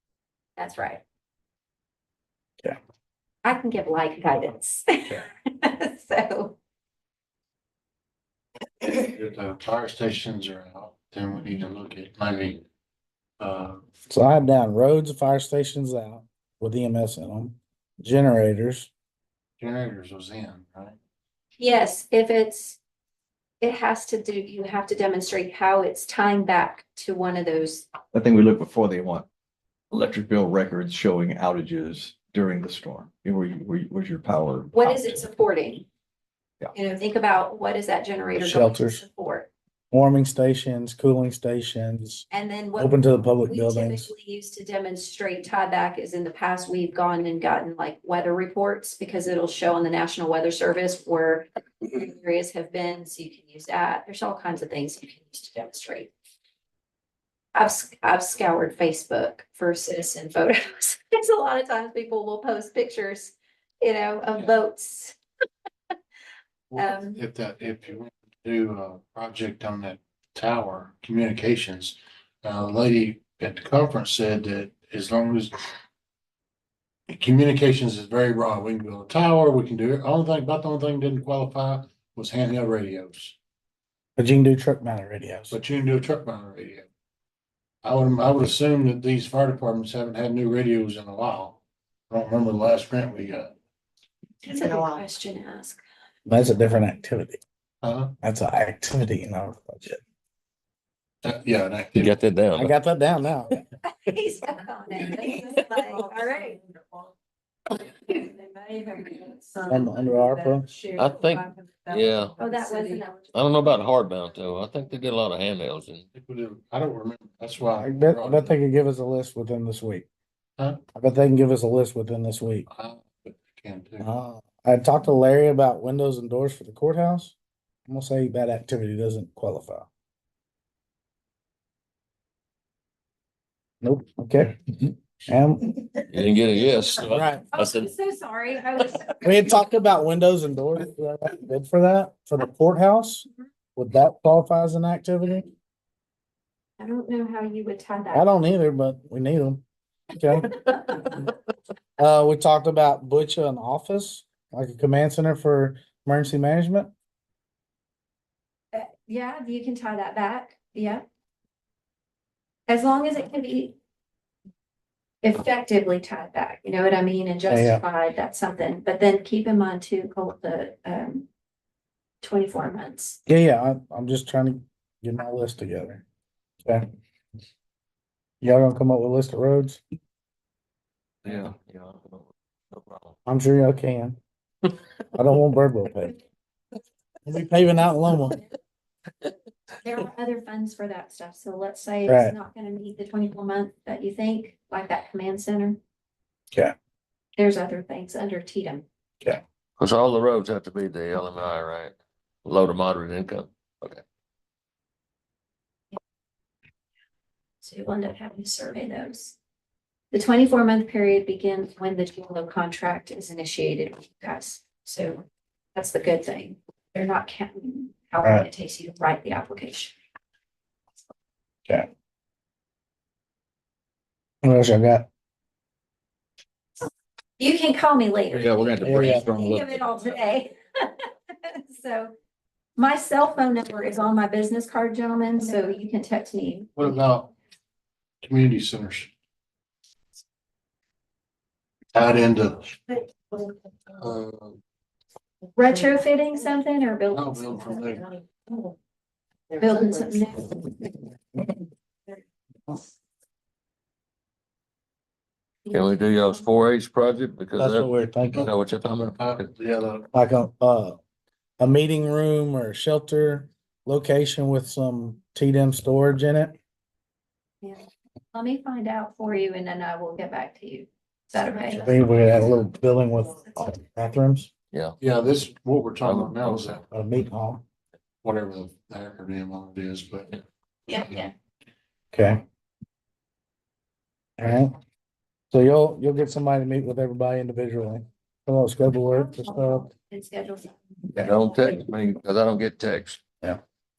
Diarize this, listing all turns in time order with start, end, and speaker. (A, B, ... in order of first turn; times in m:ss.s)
0:00.6-0:01.0 A
0:03.4-0:06.6 A
0:08.8-0:12.6 B
0:13.4-0:13.8 B
0:14.1-0:18.9 C
0:19.6-0:21.0 B
0:21.6-0:22.8 A
0:23.6-0:27.9 A
0:28.1-0:29.2 D
0:29.9-0:35.2 D
0:34.7-0:35.8 A
0:36.7-0:39.5 A
0:38.4-0:39.0 C
0:39.9-0:42.2 C
0:42.3-0:56.1 A
0:42.8-0:44.1 C
0:57.5-1:05.2 A
1:06.7-1:15.6 B
1:06.8-1:07.2 A
1:17.1-1:23.3 B
1:24.2-1:25.6 C
1:25.5-1:26.8 B
1:27.8-1:31.6 B
1:32.1-1:33.5 B
1:34.4-1:35.8 A
1:36.2-1:37.4 C
1:37.8-1:38.1 B
1:38.2-1:40.0 C
1:41.2-1:42.1 B
1:42.0-1:42.7 E
1:42.6-1:43.6 C
1:43.8-1:46.6 A
1:47.8-1:53.3 A
1:49.7-1:50.6 C
1:51.0-1:52.4 E
1:53.3-1:56.0 E
1:56.1-1:58.6 B
1:57.8-2:00.1 C
2:00.9-2:02.7 C
2:02.7-2:04.1 B
2:04.0-2:07.3 C
2:07.9-2:09.9 C
2:13.8-2:14.6 C
2:15.3-2:15.8 C
2:16.1-2:17.9 E
2:17.0-2:17.4 C
2:17.5-2:19.2 A
2:19.2-2:25.5 C
2:26.8-2:28.3 A
2:28.1-2:29.6 C
2:30.2-2:31.1 C
2:32.0-2:36.9 C
2:38.7-2:41.0 A
2:42.7-2:43.8 A
2:45.2-2:51.3 A
2:47.5-2:47.8 C
2:52.2-2:53.2 A
2:53.3-2:56.0 C
2:58.4-2:59.8 C
3:01.2-3:03.1 E
3:03.2-3:04.2 C
3:05.1-3:06.1 C
3:07.2-3:08.4 C
3:09.8-3:15.8 A
3:12.0-3:12.3 C
3:17.4-3:18.8 A
3:19.8-3:24.0 E
3:27.6-3:29.4 A
3:30.1-3:35.2 A
3:35.7-3:39.9 A
3:44.4-3:45.1 C
3:47.4-3:52.1 A
3:48.3-3:50.0 E
3:48.8-3:49.2 C
3:52.8-3:56.7 A
3:56.8-3:57.3 B
3:58.2-3:59.1 B
4:01.9-4:03.0 B
4:04.0-4:04.6 B
4:05.5-4:07.6 A
4:07.1-4:08.1 B
4:09.6-4:10.7 A
4:15.6-4:16.4 A
4:15.7-4:19.5 E
4:17.6-4:18.5 C
4:18.3-4:20.1 B
4:20.1-4:21.0 C
4:21.6-4:26.5 C
4:27.6-4:32.0 A
4:31.7-4:34.5 C
4:35.0-4:36.8 B
4:36.0-4:36.8 E
4:36.9-4:37.6 C
4:38.2-4:40.4 B
4:40.9-4:41.3 A
4:42.1-4:42.4 C
4:44.4-4:44.7 C
4:45.5-4:49.9 C
4:49.1-4:50.8 A
4:51.2-4:53.2 E